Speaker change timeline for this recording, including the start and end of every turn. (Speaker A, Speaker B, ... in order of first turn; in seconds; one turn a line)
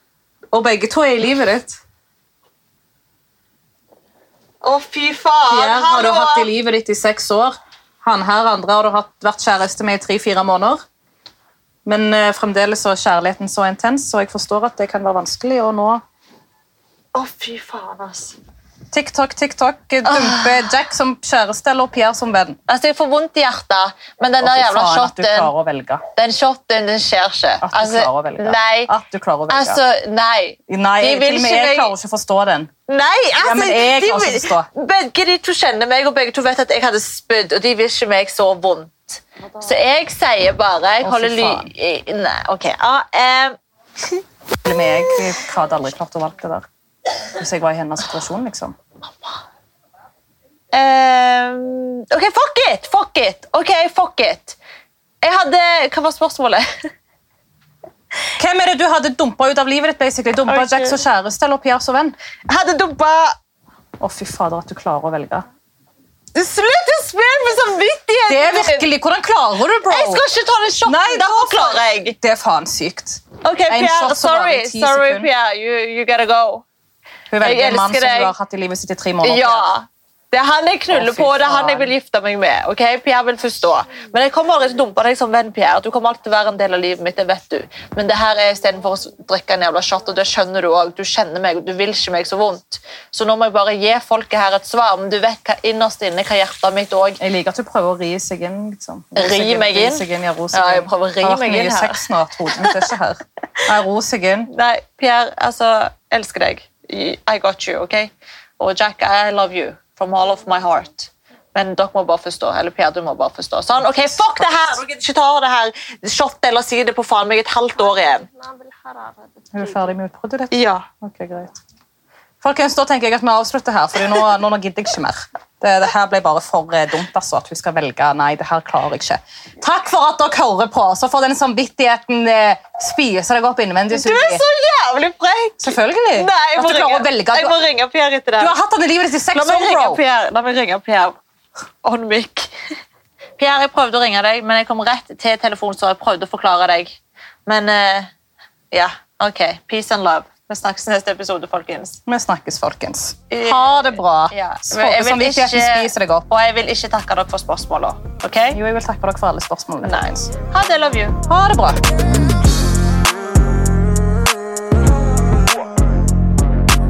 Speaker A: 0.5-1.8
Speaker B: 4.6-6.5
Speaker A: 5.5-10.8
Speaker A: 11.8-16.0
Speaker B: 17.1-18.4
Speaker A: 18.9-22.6
Speaker B: 20.0-20.6
Speaker B: 22.7-25.5
Speaker A: 24.4-26.0
Speaker B: 26.1-28.9
Speaker A: 27.6-29.8
Speaker B: 29.5-31.9
Speaker A: 30.7-32.7
Speaker B: 32.9-43.5
Speaker A: 33.4-34.7
Speaker A: 41.0-41.7
Speaker A: 44.6-46.6
Speaker B: 44.8-45.2
Speaker A: 47.4-48.8
Speaker B: 50.7-54.6
Speaker B: 55.2-56.7
Speaker A: 58.4-62.1
Speaker B: 60.5-61.0
Speaker B: 62.5-63.4
Speaker A: 64.0-65.5
Speaker B: 66.3-68.9
Speaker A: 68.3-70.2
Speaker B: 69.9-72.2
Speaker A: 70.8-75.3
Speaker B: 73.4-76.6
Speaker A: 77.3-79.7
Speaker B: 77.4-78.3
Speaker B: 79.2-97.2
Speaker A: 80.9-81.9
Speaker A: 97.2-104.5
Speaker B: 99.2-102.0
Speaker B: 102.5-102.9
Speaker B: 104.5-118.2
Speaker A: 113.8-114.5
Speaker C: 117.8-120.0
Speaker A: 119.5-121.6
Speaker B: 120.5-120.9
Speaker A: 122.4-134.4
Speaker B: 133.9-138.6
Speaker A: 135.6-137.6
Speaker A: 138.4-140.0
Speaker B: 139.3-141.2
Speaker B: 141.8-142.5
Speaker B: 143.4-148.1
Speaker B: 148.7-152.0
Speaker A: 152.1-156.3
Speaker B: 153.3-158.6
Speaker A: 158.5-160.3
Speaker B: 159.8-161.2
Speaker A: 161.3-161.8